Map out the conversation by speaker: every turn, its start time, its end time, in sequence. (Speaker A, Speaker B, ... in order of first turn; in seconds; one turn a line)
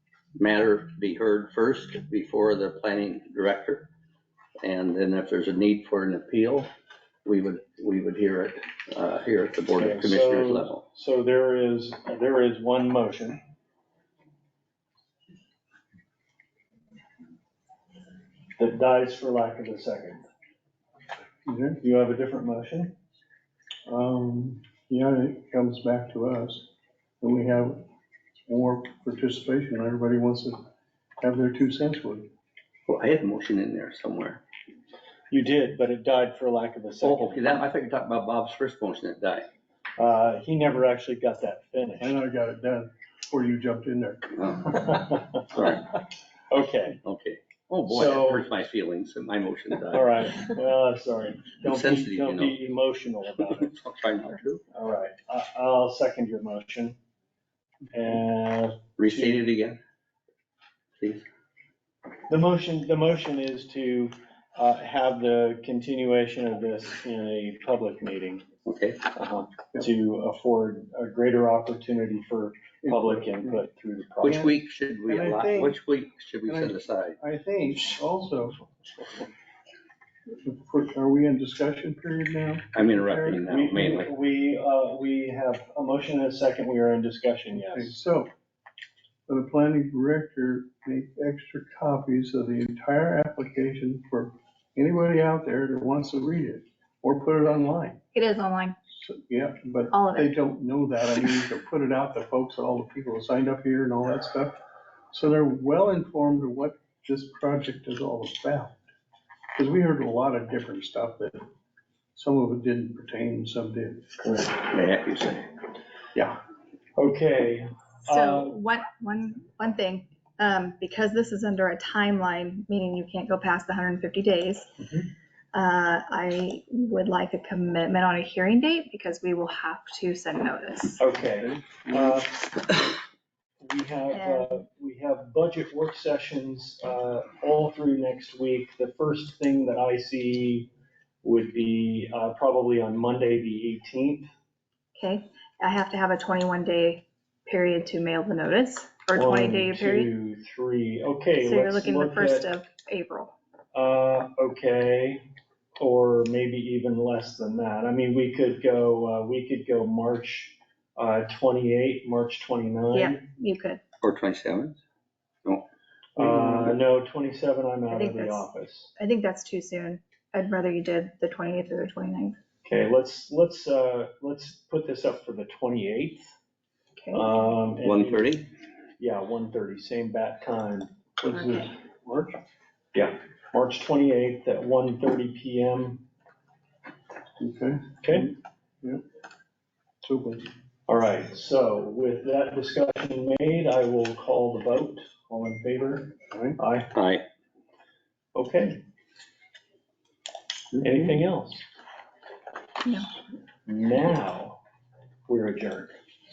Speaker A: 0.3-3.9
Speaker A: 4.6-6.7
Speaker A: 7.2-10.8
Speaker B: 9.7-13.4
Speaker B: 18.6-20.2
Speaker C: 21.4-21.8
Speaker B: 21.8-22.9
Speaker C: 23.9-26.7
Speaker C: 27.2-27.9
Speaker C: 28.5-30.6
Speaker C: 31.2-32.3
Speaker A: 32.9-34.4
Speaker B: 35.3-37.6
Speaker A: 37.0-39.5
Speaker B: 40.0-42.2
Speaker C: 42.0-44.3
Speaker A: 44.4-44.8
Speaker B: 44.7-45.6
Speaker A: 45.5-45.9
Speaker B: 46.5-47.0
Speaker A: 47.0-50.1
Speaker B: 47.9-48.5
Speaker B: 49.9-53.7
Speaker A: 51.6-52.5
Speaker A: 53.4-54.6
Speaker B: 54.7-57.0
Speaker B: 57.9-59.5
Speaker A: 59.0-59.8
Speaker A: 61.0-61.2
Speaker B: 62.3-68.5
Speaker A: 68.7-69.0
Speaker B: 69.1-74.4
Speaker C: 72.8-73.6
Speaker A: 74.2-77.2
Speaker C: 74.3-75.8
Speaker C: 76.5-78.6
Speaker C: 80.4-83.5
Speaker A: 82.7-84.1
Speaker B: 83.4-88.0
Speaker C: 87.5-88.3
Speaker C: 89.3-98.0
Speaker D: 98.1-98.8
Speaker C: 98.9-104.6
Speaker D: 99.9-100.3
Speaker C: 105.1-108.8
Speaker C: 109.5-111.4
Speaker C: 112.1-114.0
Speaker B: 114.2-114.5
Speaker A: 114.5-115.5
Speaker B: 117.0-118.6
Speaker D: 118.0-124.7
Speaker D: 125.5-131.0
Speaker B: 131.0-132.4
Speaker C: 131.4-132.1
Speaker B: 133.6-140.7
Speaker D: 134.1-134.5
Speaker B: 141.2-144.3
Speaker D: 144.9-150.1
Speaker B: 149.1-152.5
Speaker D: 151.4-153.3
Speaker B: 153.7-155.2
Speaker B: 155.8-163.2
Speaker D: 162.9-163.8
Speaker A: 164.0-164.8
Speaker B: 166.2-168.9
Speaker C: 166.2-166.8
Speaker D: 167.9-172.4
Speaker B: 172.6-176.3
Speaker D: 176.9-177.6
Speaker B: 177.1-178.4
Speaker A: 177.8-178.4
Speaker B: 179.0-180.9
Speaker C: 181.2-182.4
Speaker D: 181.3-181.7
Speaker B: 182.9-186.0
Speaker C: 187.4-189.0
Speaker B: 188.0-188.3
Speaker C: 190.0-190.5
Speaker B: 190.9-196.9
Speaker C: 196.3-196.6
Speaker A: 196.9-197.2
Speaker B: 198.3-198.8
Speaker C: 200.7-201.2
Speaker B: 200.8-201.6
Speaker D: 202.8-203.1
Speaker B: 203.7-204.6
Speaker B: 205.3-205.9